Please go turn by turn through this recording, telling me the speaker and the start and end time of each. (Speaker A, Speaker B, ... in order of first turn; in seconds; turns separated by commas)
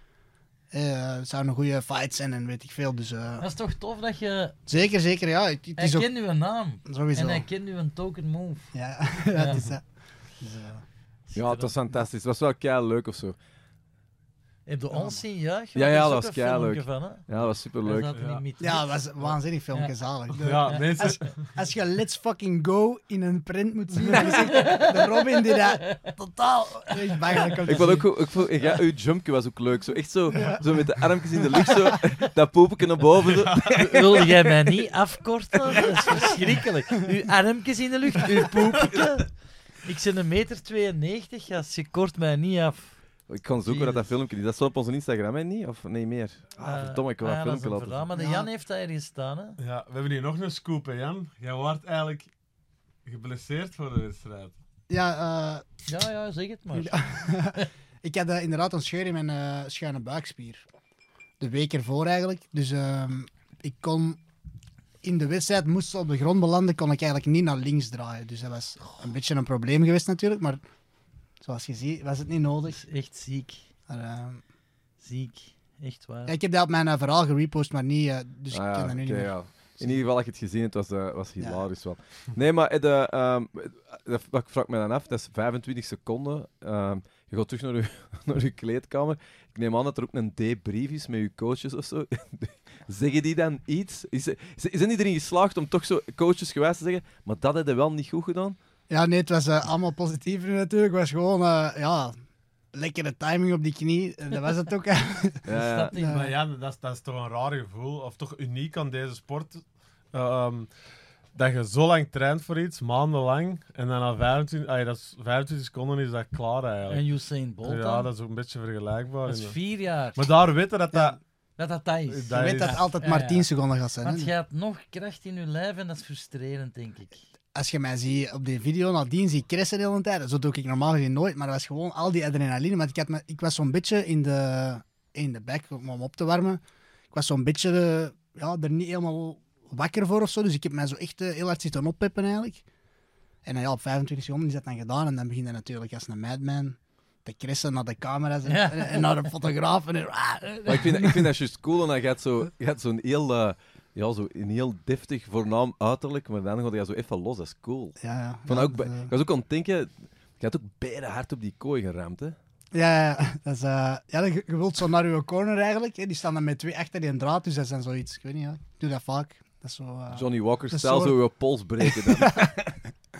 Speaker A: 0.7-3.4, Speaker B: 3.4-4.5, Speaker A: 4.7-6.1, Speaker B: 5.8-8.7, Speaker A: 6.8-7.4, Speaker A: 8.7-9.8, Speaker B: 9.3-9.6, Speaker A: 10.4-10.8, Speaker B: 11.3-11.7, Speaker C: 11.3-13.3, Speaker B: 14.7-17.2, Speaker A: 14.9-15.2, Speaker C: 15.7-18.2, Speaker B: 17.8-18.9, Speaker D: 18.1-18.4, Speaker A: 18.6-28.1, Speaker D: 20.3-21.4, Speaker B: 24.2-26.0, Speaker C: 27.7-34.7, Speaker A: 31.6-32.0, Speaker D: 33.2-34.2, Speaker B: 33.8-39.3, Speaker B: 39.8-43.0, Speaker C: 43.3-48.1, Speaker B: 43.6-44.1, Speaker B: 46.6-49.6, Speaker A: 48.1-48.5, Speaker D: 49.6-52.3, Speaker D: 53.0-54.5, Speaker A: 54.9-55.6, Speaker B: 55.9-57.0, Speaker A: 56.7-60.6, Speaker A: 61.4-64.2, Speaker A: 65.0-70.6, Speaker A: 71.4-72.8, Speaker B: 72.7-73.6, Speaker A: 73.9-74.4, Speaker B: 75.0-76.3, Speaker A: 76.3-80.0, Speaker C: 78.5-98.6, Speaker A: 81.4-81.6, Speaker A: 98.9-102.2, Speaker A: 102.7-106.3, Speaker C: 105.5-105.9, Speaker B: 105.5-106.3, Speaker D: 106.0-110.7, Speaker D: 111.3-117.0, Speaker B: 116.9-118.1, Speaker D: 117.6-119.5, Speaker B: 119.2-120.2, Speaker D: 120.1-121.2, Speaker B: 121.6-123.5, Speaker D: 122.1-122.8, Speaker A: 122.3-124.3, Speaker B: 124.0-127.2, Speaker A: 127.5-136.6, Speaker A: 137.1-142.6, Speaker A: 143.4-151.3, Speaker B: 148.4-149.1, Speaker C: 150.7-157.9, Speaker A: 158.0-159.1, Speaker C: 158.5-162.4, Speaker A: 162.7-171.2, Speaker C: 170.1-172.7, Speaker A: 171.8-172.5